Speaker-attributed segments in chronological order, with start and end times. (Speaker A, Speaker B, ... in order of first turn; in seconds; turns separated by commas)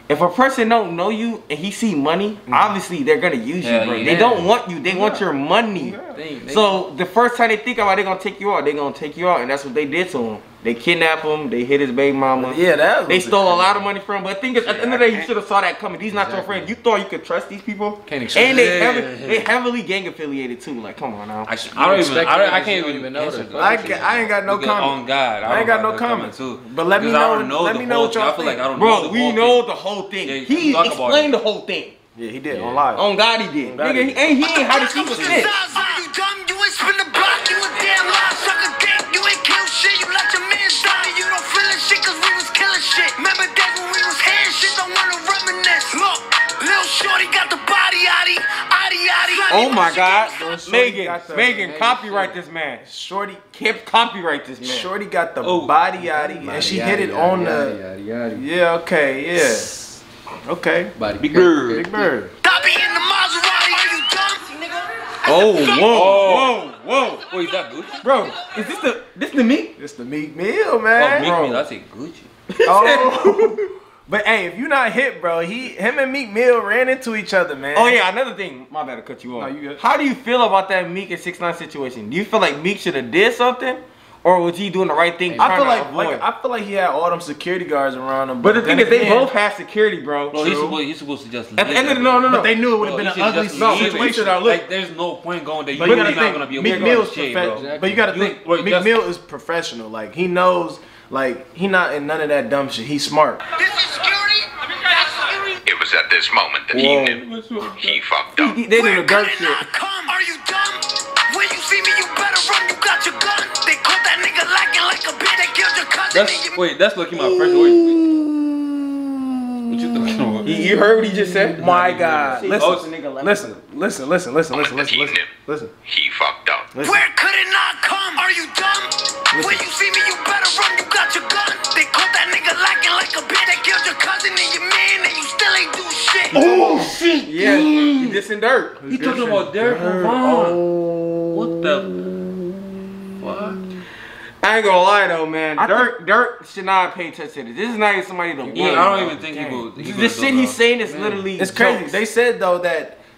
Speaker A: 0.1-6.0, Speaker B: 2.5-2.7, Speaker C: 3.6-4.5, Speaker D: 4.0-4.5, Speaker B: 4.9-6.2, Speaker D: 6.1-6.8, Speaker A: 6.5-21.5, Speaker B: 12.4-13.8, Speaker B: 14.8-15.2, Speaker D: 16.1-16.8, Speaker D: 18.1-18.7, Speaker C: 18.4-19.5, Speaker C: 21.5-29.6, Speaker D: 21.7-24.3, Speaker B: 23.6-28.7, Speaker A: 28.8-32.0, Speaker C: 30.2-31.3, Speaker B: 32.2-33.1, Speaker D: 32.5-32.9, Speaker A: 32.9-35.6, Speaker B: 33.6-34.4, Speaker E: 34.4-50.4, Speaker C: 35.1-35.5, Speaker A: 49.5-52.8, Speaker B: 50.3-51.6, Speaker D: 51.5-52.4, Speaker B: 52.8-53.5, Speaker A: 53.5-54.9, Speaker B: 54.6-57.8, Speaker C: 55.4-55.8, Speaker D: 56.0-58.5, Speaker B: 58.3-59.8, Speaker B: 60.5-61.0, Speaker D: 61.0-62.1, Speaker C: 61.2-61.9, Speaker B: 61.7-62.3, Speaker E: 62.4-64.6, Speaker A: 65.2-67.2, Speaker E: 65.3-66.0, Speaker C: 65.9-66.6, Speaker C: 67.3-68.1, Speaker A: 68.0-69.8, Speaker B: 69.8-71.3, Speaker C: 71.0-72.3, Speaker A: 71.1-71.7, Speaker A: 72.5-73.6, Speaker B: 72.7-78.0, Speaker A: 77.7-86.2, Speaker B: 79.3-79.8, Speaker D: 85.3-85.7, Speaker B: 85.4-89.3, Speaker A: 88.4-90.4, Speaker C: 90.3-99.0, Speaker B: 90.3-90.8, Speaker A: 91.6-92.6, Speaker B: 92.3-94.6, Speaker A: 93.5-94.5, Speaker B: 95.7-103.4, Speaker A: 95.8-97.1, Speaker D: 97.5-98.1, Speaker E: 103.5-105.0, Speaker F: 105.7-108.6, Speaker A: 106.7-107.8, Speaker C: 106.8-108.0, Speaker A: 108.3-109.6, Speaker E: 108.7-116.7, Speaker C: 116.1-118.2, Speaker B: 117.5-118.0, Speaker B: 118.5-119.0, Speaker C: 119.7-120.8, Speaker A: 120.4-121.6, Speaker C: 121.6-122.8, Speaker B: 121.6-125.7, Speaker A: 122.3-123.5, Speaker F: 124.5-125.3, Speaker F: 125.8-126.7, Speaker B: 126.7-127.0, Speaker E: 126.8-136.4, Speaker B: 129.3-129.7, Speaker B: 136.3-137.0, Speaker A: 136.3-138.8, Speaker C: 136.4-138.2, Speaker B: 138.8-141.6, Speaker C: 138.8-140.6, Speaker C: 141.3-142.3, Speaker C: 143.2-143.7, Speaker A: 144.4-152.0, Speaker B: 145.6-145.9, Speaker C: 148.5-151.2, Speaker B: 151.3-153.0